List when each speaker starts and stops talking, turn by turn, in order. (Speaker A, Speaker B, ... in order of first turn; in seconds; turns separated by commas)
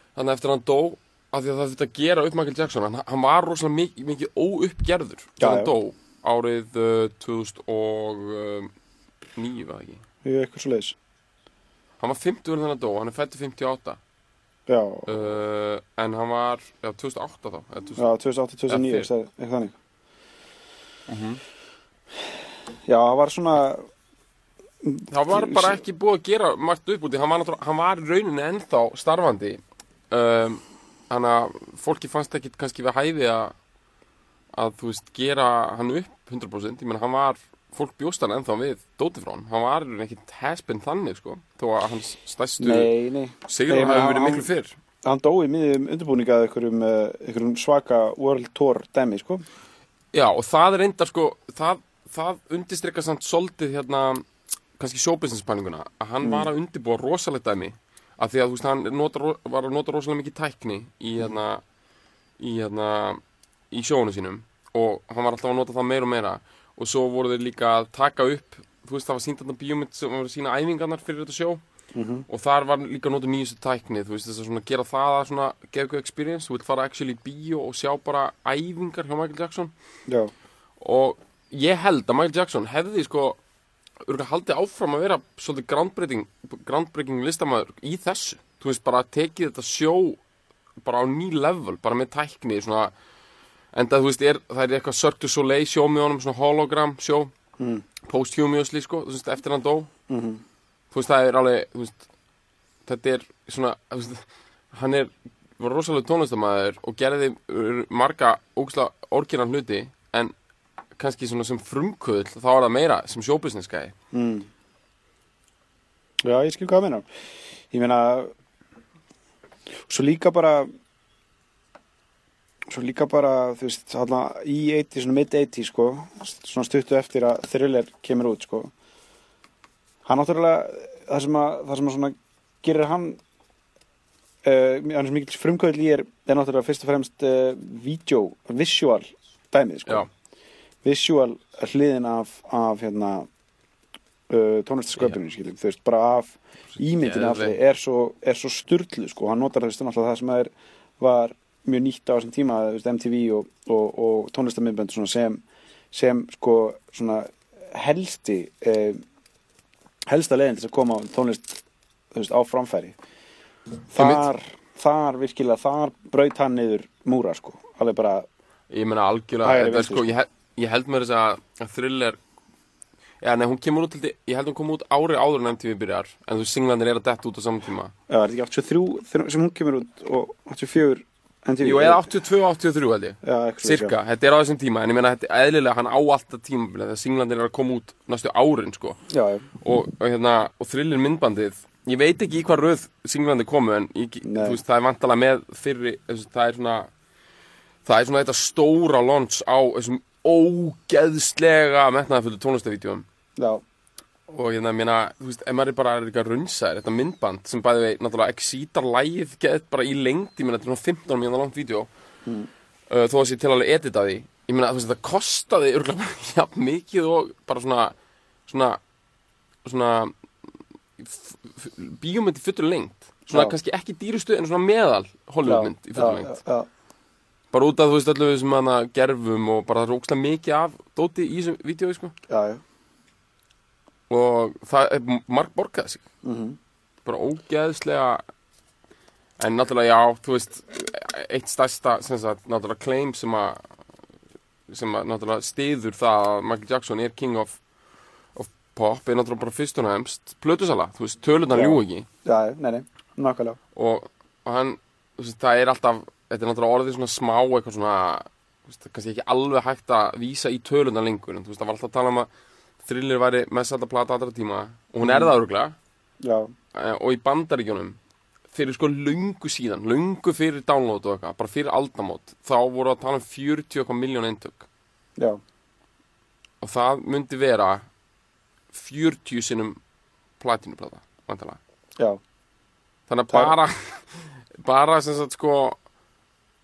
Speaker A: 0.1-8.7, Speaker B: 5.4-5.7, Speaker A: 9.3-10.0, Speaker B: 10.2-10.9, Speaker A: 12.0-14.0, Speaker B: 14.7-15.3, Speaker A: 15.1-18.1, Speaker B: 18.0-19.8, Speaker A: 18.7-19.1, Speaker A: 21.1-21.4, Speaker B: 22.9-23.8, Speaker B: 24.8-25.8, Speaker A: 25.1-33.5, Speaker A: 34.5-42.9, Speaker B: 42.6-44.5, Speaker A: 43.4-44.7, Speaker B: 45.0-49.4, Speaker A: 50.1-54.2, Speaker A: 54.8-61.6, Speaker B: 56.2-56.5, Speaker A: 62.4-71.6, Speaker B: 71.9-72.2, Speaker A: 72.3-79.7, Speaker A: 80.8-83.4, Speaker A: 84.0-90.2, Speaker A: 90.8-92.9, Speaker A: 93.7-97.3, Speaker B: 97.6-97.8, Speaker A: 98.1-99.9, Speaker B: 100.1-100.4, Speaker A: 100.9-102.0, Speaker A: 102.8-110.3, Speaker A: 111.0-113.9, Speaker B: 114.1-114.5, Speaker B: 116.2-117.1, Speaker B: 117.7-118.3, Speaker B: 119.8-120.7, Speaker B: 122.7-128.7, Speaker B: 130.1-133.2, Speaker B: 134.4-140.1, Speaker B: 140.8-143.3, Speaker B: 144.3-159.0, Speaker A: 146.8-147.5, Speaker B: 160.1-161.6, Speaker B: 162.1-163.0, Speaker B: 163.9-168.3, Speaker A: 163.9-164.2, Speaker A: 168.7-172.2, Speaker B: 169.4-170.1, Speaker A: 173.2-177.9, Speaker B: 178.1-182.1, Speaker A: 181.6-189.0, Speaker B: 183.2-183.9, Speaker B: 189.1-189.5, Speaker A: 189.6-196.9, Speaker B: 194.2-194.6, Speaker A: 197.8-203.0, Speaker B: 203.4-203.6, Speaker A: 204.3-211.9, Speaker A: 212.9-217.9, Speaker A: 218.5-218.8, Speaker A: 219.6-220.1, Speaker A: 221.0-226.3, Speaker B: 225.4-226.7, Speaker A: 227.5-232.1, Speaker B: 232.3-232.6, Speaker A: 234.1-236.0, Speaker B: 236.2-236.6, Speaker A: 237.0-238.2, Speaker A: 239.4-243.6, Speaker A: 244.7-247.6, Speaker A: 248.3-252.1, Speaker B: 251.5-253.6, Speaker A: 253.7-262.3, Speaker A: 262.8-265.8, Speaker B: 265.0-265.3, Speaker B: 266.2-266.5, Speaker A: 266.7-268.0, Speaker A: 268.5-274.6, Speaker A: 276.6-277.9, Speaker A: 278.7-279.8, Speaker A: 280.4-281.6, Speaker A: 283.1-285.8